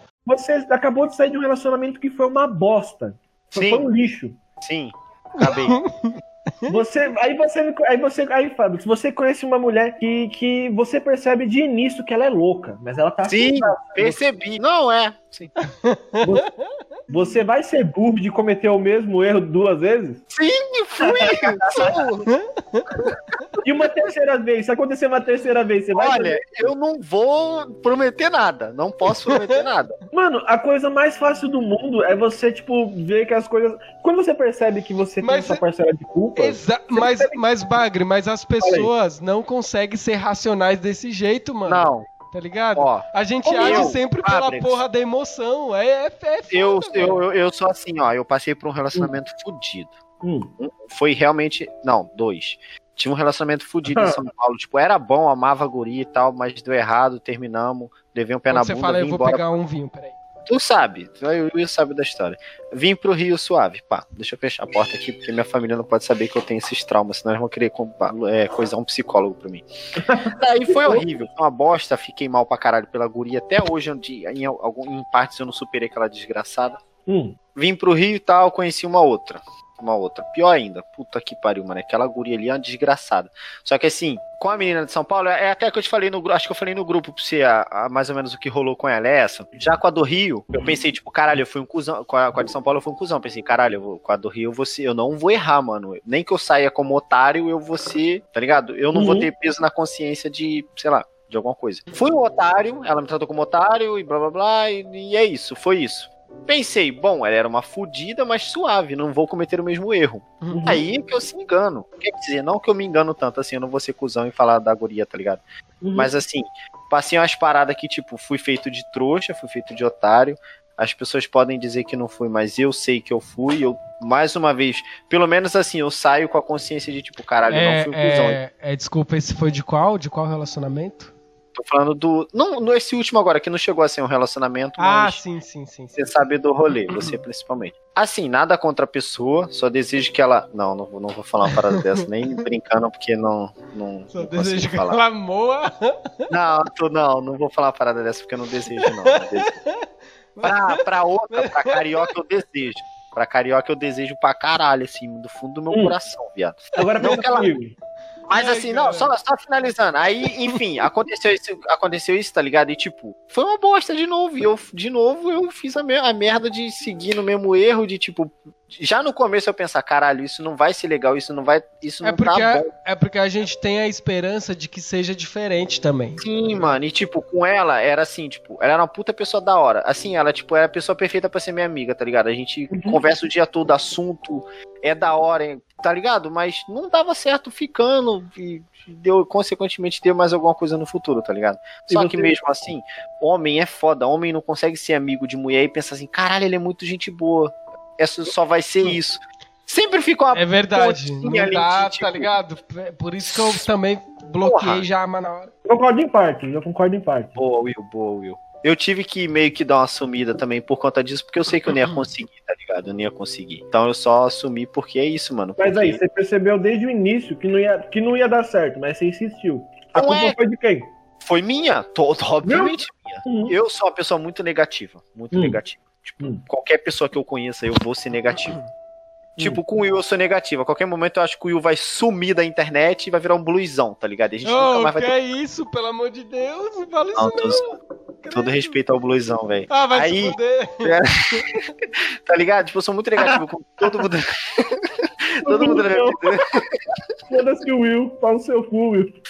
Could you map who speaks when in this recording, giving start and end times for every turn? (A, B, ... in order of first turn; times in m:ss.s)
0:00.2-0:04.4 A
0:03.5-0:03.9 B
0:04.6-0:05.8 B
0:05.4-0:06.8 C
0:06.7-0:14.2 A
0:13.2-0:15.5 B
0:15.7-0:16.7 C
0:16.2-0:16.4 A
0:17.1-0:20.2 A
0:20.3-0:22.3 B
0:21.0-0:22.0 A
0:22.3-0:23.4 C
0:23.6-0:26.7 A
0:25.9-0:30.0 B
0:29.3-0:29.6 C
0:30.1-0:37.4 A
0:35.2-0:35.6 C
0:36.4-0:47.2 C
0:38.6-0:38.9 A
0:41.6-0:42.0 B
0:42.8-0:43.0 B
0:43.4-0:44.0 A
0:43.6-0:44.8 B
0:46.5-0:49.9 B
0:50.2-0:50.5 A
0:50.6-0:59.4 B
0:53.8-0:54.2 A
0:58.5-1:00.1 C
1:00.5-1:09.6 B
1:10.0-1:11.0 A
1:10.3-1:16.8 B
1:17.1-1:17.4 A
1:17.5-1:55.4 B
1:38.9-1:39.3 A
1:50.4-1:50.7 C
1:50.5-1:50.8 A
1:55.8-1:56.1 A
1:55.9-2:08.4 B
2:07.5-2:11.1 C
2:11.5-2:15.2 B
2:14.8-2:16.1 C
2:15.9-2:25.0 B
2:21.5-2:22.0 C
2:24.1-2:26.3 C
2:26.3-2:29.6 B
2:28.8-2:32.0 C
2:30.4-2:37.5 B
2:36.7-2:37.7 A
2:38.3-2:52.7 B
2:38.3-2:39.1 C
2:52.0-2:56.7 C
2:56.2-3:22.3 B
3:02.7-3:03.0 A
3:11.9-3:12.3 A
3:20.3-3:25.5 C
3:23.3-3:23.6 B
3:24.4-3:24.8 B
3:25.6-3:27.4 A
3:27.4-3:36.0 B
3:35.6-3:40.9 A
3:39.9-3:40.4 B
3:41.2-3:48.6 B
3:42.4-3:43.5 A
3:45.3-3:45.6 A
3:49.4-3:55.1 B
3:54.4-3:57.7 C
3:57.2-3:57.7 B
3:58.2-3:58.7 C
3:58.3-4:01.6 B
3:59.7-4:01.4 C
4:02.2-4:07.0 B
4:05.4-4:06.5 A
4:07.3-4:09.2 A